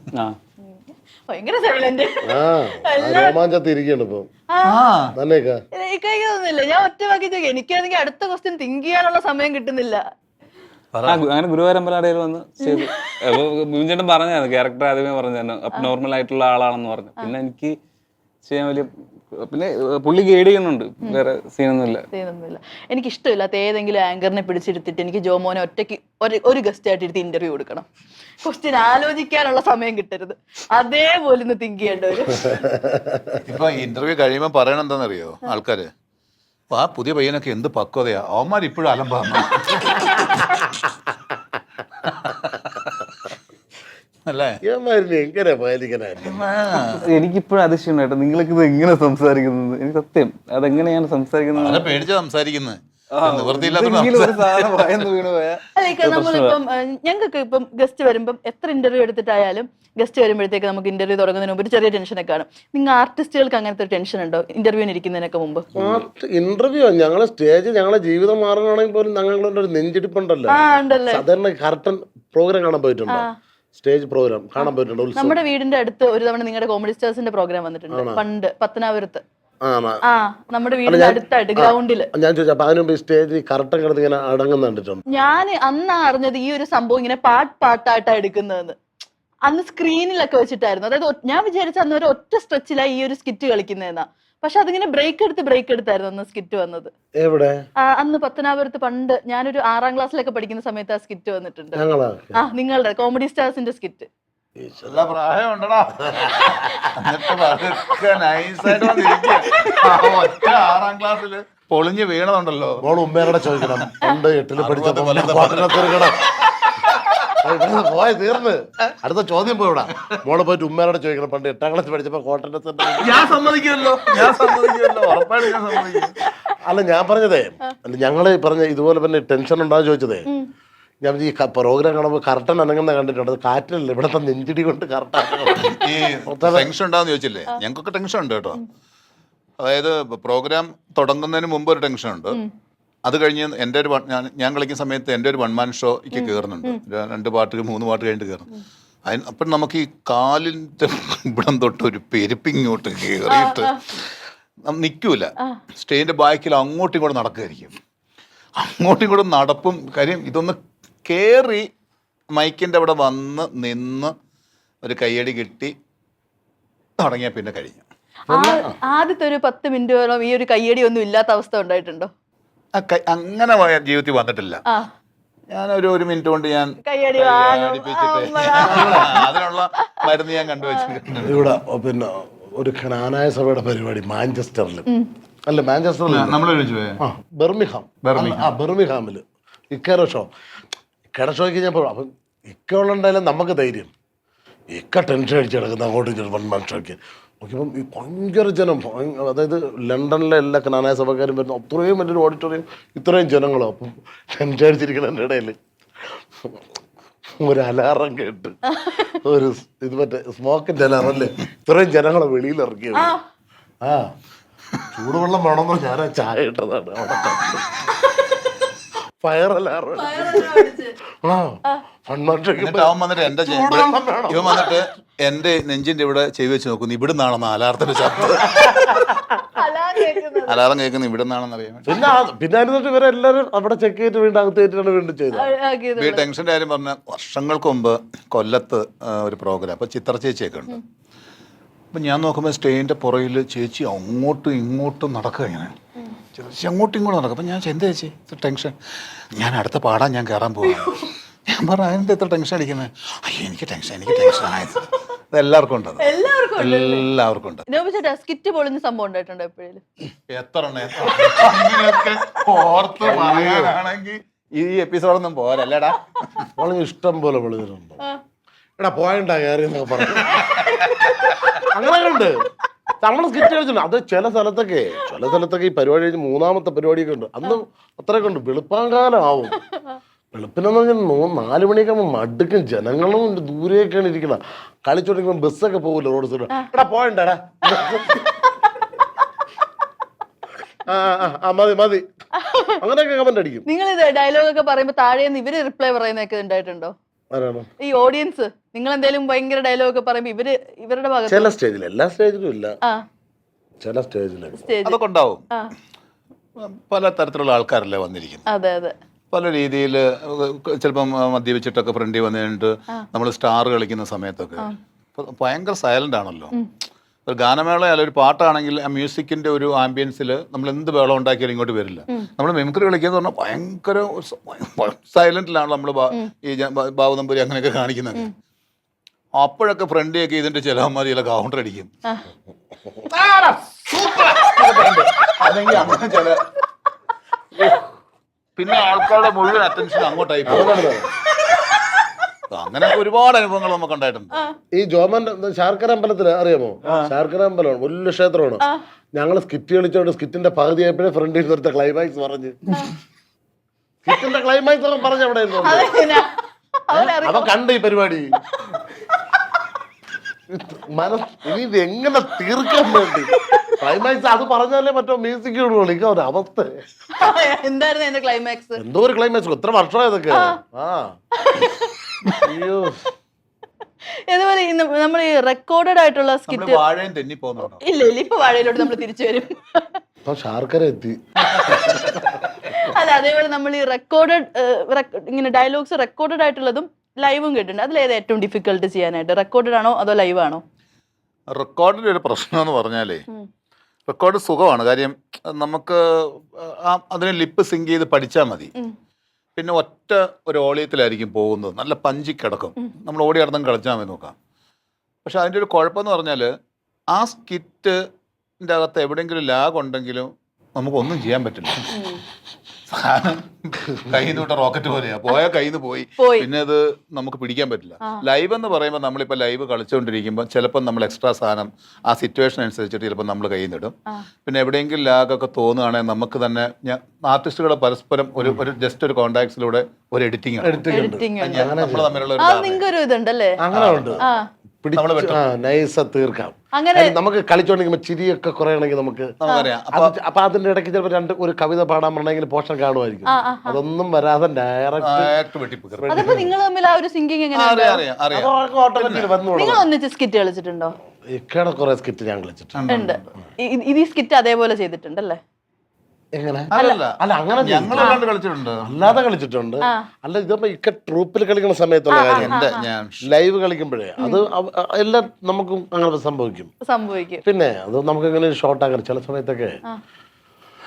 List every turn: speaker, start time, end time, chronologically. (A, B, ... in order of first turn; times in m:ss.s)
0:00.6-0:02.3 A
0:02.2-0:04.3 B
0:02.8-0:03.4 A
0:04.5-0:04.8 A
0:04.6-0:05.1 C
0:05.2-0:05.6 B
0:05.8-0:10.0 A
0:10.9-0:11.2 C
0:11.0-0:17.8 D
0:12.6-0:13.2 A
0:18.4-0:22.1 D
0:22.1-0:27.9 A
0:28.4-0:32.7 A
0:32.5-0:33.2 B
0:33.4-0:35.9 C
0:36.7-0:40.6 C
0:42.1-0:43.3 C
0:44.3-0:44.6 C
0:44.6-0:46.8 B
0:46.2-0:47.1 C
0:47.0-0:51.9 D
0:51.5-0:54.9 C
0:53.1-0:56.6 D
0:55.8-1:05.7 A
1:05.8-1:15.4 B
1:10.5-1:11.2 A
1:14.6-1:19.2 A
1:17.9-1:18.2 B
1:19.6-1:20.0 B
1:20.1-1:22.1 A
1:20.9-1:25.0 B
1:25.1-1:28.8 A
1:29.5-1:36.9 A
1:37.2-1:37.6 B
1:37.8-1:41.8 A
1:41.8-1:42.4 B
1:42.4-1:44.1 A
1:44.6-1:45.1 B
1:44.8-1:53.9 C
1:52.8-1:56.2 B
1:54.6-1:57.4 C
1:57.4-2:03.4 B
2:03.0-2:06.2 C
2:06.6-2:10.3 B
2:11.0-2:15.6 B
2:15.6-2:18.6 C
2:16.3-2:16.7 B
2:19.6-2:22.4 C
2:23.0-2:28.5 C
2:26.1-2:26.8 A
2:29.1-2:34.1 C
2:33.3-2:33.8 A
2:34.7-2:37.8 C
2:38.6-2:41.7 C
2:42.3-2:44.1 C
2:44.8-2:45.7 C
2:47.0-2:47.8 C
2:48.3-2:48.8 B
2:48.3-2:52.1 A
2:52.8-2:54.6 C
2:55.5-3:01.6 C
2:56.9-2:59.8 A
2:58.6-2:59.2 B
3:00.6-3:00.9 A
3:01.2-3:04.9 B
3:05.5-3:06.4 B
3:06.1-3:07.0 C
3:07.0-3:10.3 B
3:08.0-3:08.5 C
3:11.1-3:13.9 B
3:14.7-3:25.6 B
3:27.4-3:28.6 B
3:28.7-3:29.2 A
3:29.2-3:33.2 B
3:32.9-3:33.2 A
3:33.8-3:34.1 B
3:34.9-3:37.8 B
3:39.2-3:44.8 B
3:40.0-3:41.0 A
3:42.6-3:49.1 C
3:48.5-3:49.2 B
3:49.5-3:50.6 A
3:50.5-3:52.1 C
3:51.9-3:55.5 B
3:55.3-3:56.3 A
3:56.0-4:00.8 C
4:01.9-4:05.7 C
4:06.4-4:08.8 C
4:09.3-4:16.1 C
4:10.8-4:11.0 A
4:16.0-4:17.0 A
4:16.6-4:17.6 C
4:17.7-4:19.8 A
4:20.3-4:26.5 C
4:23.0-4:23.8 B
4:26.6-4:28.0 B
4:28.8-4:30.6 B
4:30.2-4:31.6 C
4:31.7-4:32.5 B
4:33.0-4:39.6 B
4:39.7-4:40.0 A
4:40.3-4:48.4 B
4:47.9-4:48.6 A
4:50.9-4:52.0 B
4:52.4-4:52.8 A
4:52.8-4:53.7 B
4:53.7-4:56.9 A
4:57.3-4:57.7 B
4:57.8-5:01.5 A
5:01.3-5:02.7 B
5:03.8-5:04.7 B
5:04.6-5:05.0 A
5:04.8-5:05.5 C
5:06.6-5:08.4 C
5:08.5-5:09.0 A
5:09.3-5:16.6 C
5:17.3-5:28.3 C
5:29.4-5:31.9 C
5:33.1-5:36.4 C
5:34.1-5:35.1 B
5:35.7-5:36.0 B
5:38.6-5:41.0 C
5:40.5-5:41.1 B
5:42.5-5:44.4 C
5:44.7-5:48.6 B
5:49.2-5:52.6 B
5:54.0-5:55.9 B
5:55.6-5:57.5 A
5:56.9-5:58.3 B
6:00.5-6:06.7 B
6:03.4-6:03.8 A
6:07.2-6:08.8 A
6:08.8-6:11.1 B
6:11.4-6:12.2 A
6:12.4-6:13.0 B
6:14.3-6:16.8 A
6:16.5-6:17.8 C
6:17.8-6:20.0 A
6:20.3-6:21.2 B
6:21.7-6:22.2 C
6:22.6-6:30.6 A
6:31.5-6:33.2 C
6:34.1-6:38.7 C
6:39.6-6:44.3 C
6:45.2-6:46.5 C
6:47.1-6:48.0 C
6:48.6-6:52.0 C
6:51.9-6:52.2 A
6:52.9-7:03.9 C
6:56.2-6:56.5 A
7:04.4-7:10.8 C
7:10.6-7:12.2 B
7:10.9-7:11.7 A
7:11.4-7:12.8 C
7:12.4-7:13.6 A
7:13.6-7:14.2 B
7:13.7-7:14.2 C
7:14.8-7:19.3 B
7:15.0-7:15.4 C
7:16.8-7:17.2 A
7:19.4-7:20.1 C
7:19.9-7:25.3 B
7:23.3-7:23.8 A
7:25.0-7:26.4 C
7:26.0-7:26.5 B
7:26.1-7:28.0 A
7:27.5-7:29.3 C
7:28.3-7:29.8 B
7:29.6-7:31.0 A
7:31.3-7:32.8 B
7:32.8-7:33.3 C
7:32.9-7:35.4 A
7:36.4-7:38.2 B
7:36.7-7:38.9 C
7:38.0-7:38.2 A
7:38.9-7:42.7 B
7:42.2-7:42.9 A
7:42.3-7:43.2 C
7:43.3-7:46.7 B
7:46.8-7:47.4 A
7:47.4-7:49.8 B